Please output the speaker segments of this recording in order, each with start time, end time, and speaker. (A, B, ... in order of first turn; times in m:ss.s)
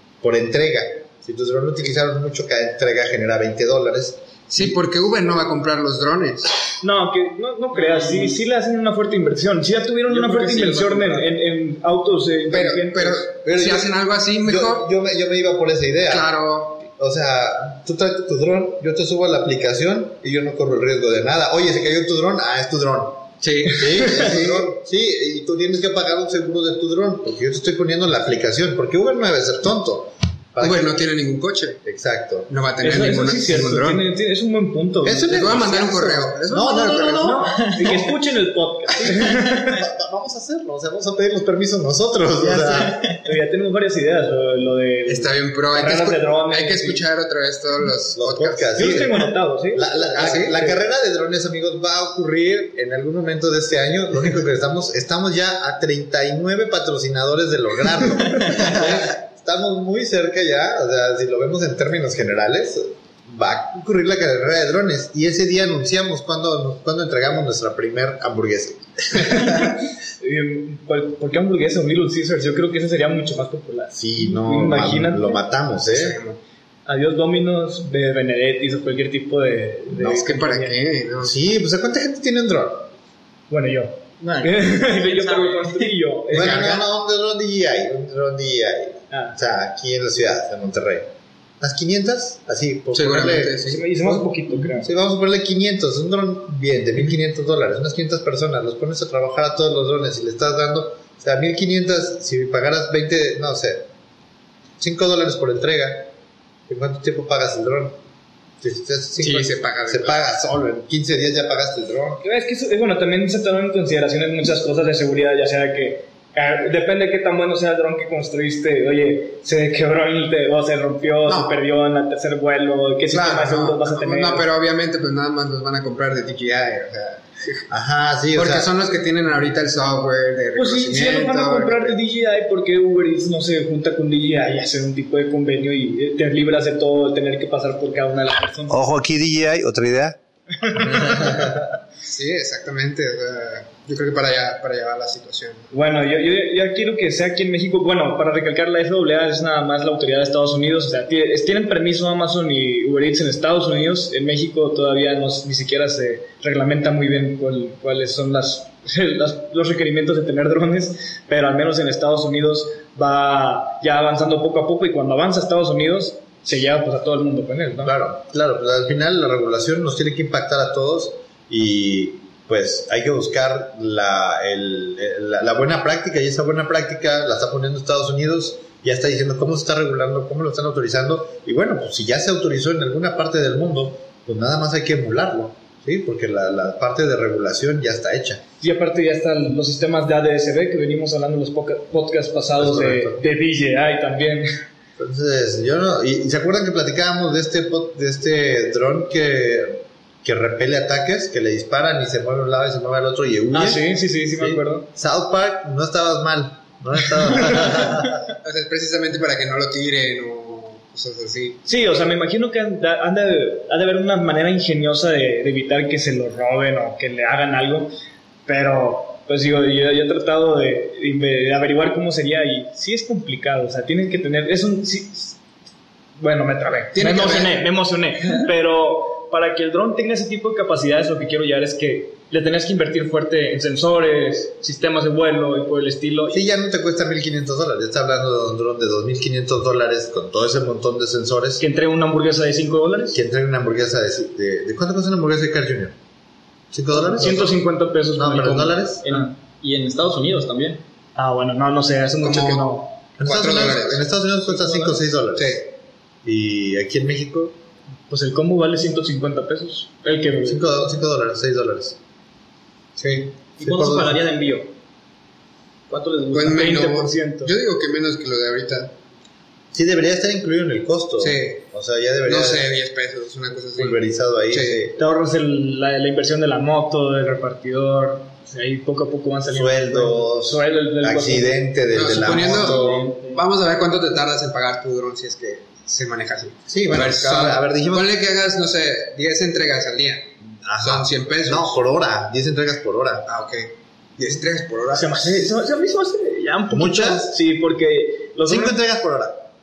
0:00.2-0:04.2 A
0:04.5-0:06.5 B
0:06.8-0:13.3 C
0:07.7-0:08.4 D
0:10.1-0:11.3 D
0:12.5-0:14.9 B
0:13.4-0:16.3 A
0:16.1-0:16.8 B
0:17.0-0:30.9 A
0:23.4-0:24.5 B
0:30.6-0:31.8 B
0:31.8-0:32.5 A
0:32.5-0:34.0 B
0:32.8-0:35.5 C
0:35.0-0:38.0 A
0:35.3-0:37.4 B
0:37.2-0:39.8 C
0:38.9-0:43.0 A
0:42.4-0:47.0 C
0:45.0-0:49.1 B
0:48.1-0:49.1 A
0:48.7-0:50.8 C
0:49.7-1:09.5 A
0:50.1-0:50.6 B
1:10.2-1:15.4 C
1:13.9-1:16.2 A
1:15.9-1:16.4 B
1:16.8-1:20.8 C
1:20.0-1:20.2 A
1:20.1-1:21.4 B
1:21.2-1:22.9 A
1:23.5-1:26.8 C
1:24.2-1:25.9 D
1:26.3-1:31.1 A
1:26.3-1:26.8 B
1:29.1-1:29.4 C
1:31.6-1:33.6 A
1:32.9-1:34.1 B
1:33.6-1:34.9 C
1:34.8-1:43.9 A
1:44.8-1:46.1 A
1:46.7-1:48.0 A
1:48.6-1:52.2 A
1:49.2-1:50.2 B
1:52.2-2:04.5 C
2:01.2-2:01.6 B
2:03.1-2:07.6 B
2:07.7-2:08.7 A
2:08.3-2:12.0 B
2:10.6-2:18.8 C
2:18.7-2:20.2 A
2:20.6-2:21.4 C
2:20.8-2:21.5 A
2:22.0-2:25.6 B
2:25.7-2:47.9 C
2:47.8-3:08.4 A
3:08.6-3:14.4 C
3:12.6-3:13.2 A
3:15.0-3:28.2 A
3:23.5-3:24.9 C
3:28.4-3:31.6 B
3:31.6-3:37.9 C
3:38.4-3:45.4 C
3:46.2-3:56.4 C
3:46.9-3:47.6 B
3:56.3-4:01.6 A
4:01.6-4:03.2 C
4:03.1-4:06.0 A
4:06.7-4:07.6 A
4:06.9-4:09.3 C
4:08.1-4:09.0 A
4:09.0-4:10.8 D
4:11.2-4:12.9 C
4:12.2-4:12.7 B
4:13.2-4:15.7 A
4:13.2-4:14.1 B
4:14.6-4:15.0 C
4:15.4-4:15.6 B
4:16.2-4:17.6 A
4:18.1-4:20.8 C
4:20.4-4:22.0 A
4:23.0-4:23.3 B
4:23.6-4:24.7 D
4:23.6-4:24.2 A
4:25.9-4:26.7 D
4:26.3-4:28.9 B
4:26.5-4:27.5 C
4:29.7-4:32.7 A
4:31.2-4:31.6 B
4:32.2-4:34.8 B
4:33.7-4:35.0 A
4:35.0-4:41.6 C
4:39.5-4:42.8 A
4:41.9-4:50.3 B
4:42.2-4:43.4 D
4:46.7-4:48.1 A
4:50.6-4:53.2 A
4:50.8-4:51.8 B
4:53.2-4:55.4 B
4:54.9-4:58.8 C
4:56.7-4:57.3 A
4:58.4-4:59.4 A